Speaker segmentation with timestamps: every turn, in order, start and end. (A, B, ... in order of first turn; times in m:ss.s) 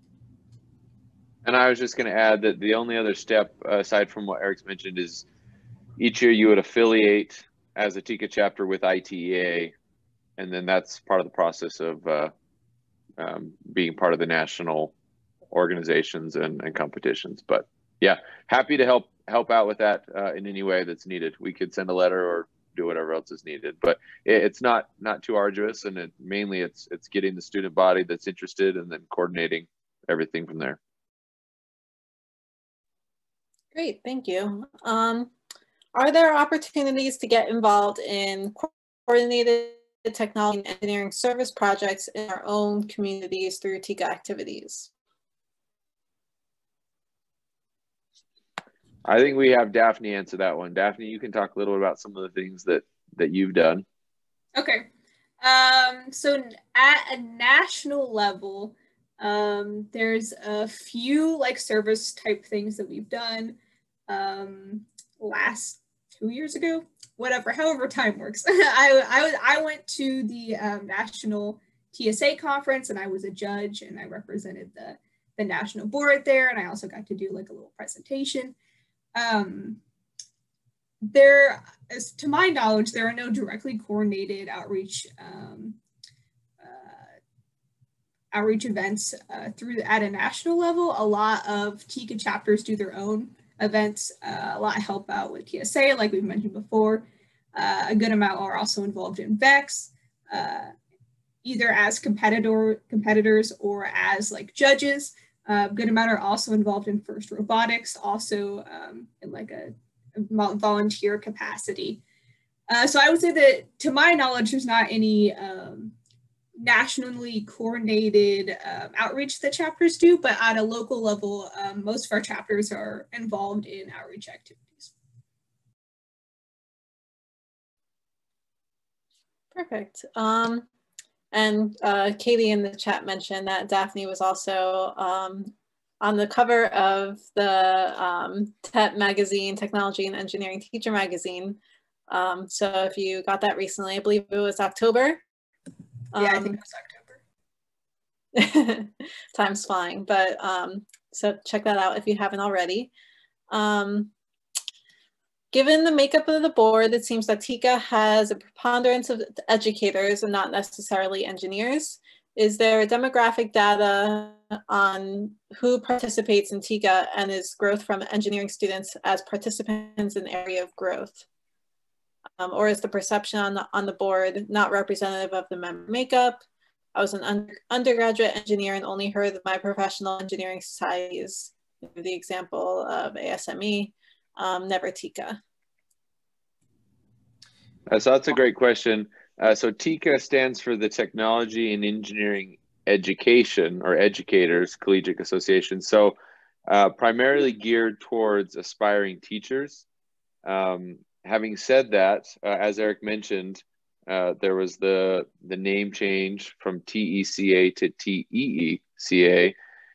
0:01.4-0:05.3 A
0:06.0-0:09.7 A
0:10.4-0:12.3 A
0:13.2-0:14.9 A
0:15.5-0:30.8 A
0:33.8-0:35.3 B
0:36.0-0:44.9 B
0:49.0-0:53.8 A
0:54.6-0:54.9 C
0:55.4-1:03.6 C
1:04.1-1:18.6 C
1:19.2-1:19.8 C
1:21.1-1:25.8 C
1:26.6-1:27.0 C
1:28.3-1:40.7 C
1:41.4-1:52.0 C
1:52.7-1:55.9 C
1:56.6-2:04.9 C
2:09.6-2:10.7 B
2:11.3-2:21.6 B
2:22.1-2:25.2 B
2:26.1-2:26.6 B
2:26.2-2:27.2 C
2:28.4-2:32.9 B
2:33.5-2:34.1 B
2:35.5-2:51.2 B
2:52.4-2:56.4 B
2:57.0-3:05.4 B
3:07.9-3:16.2 A
3:16.7-3:19.8 A
3:20.4-3:29.5 A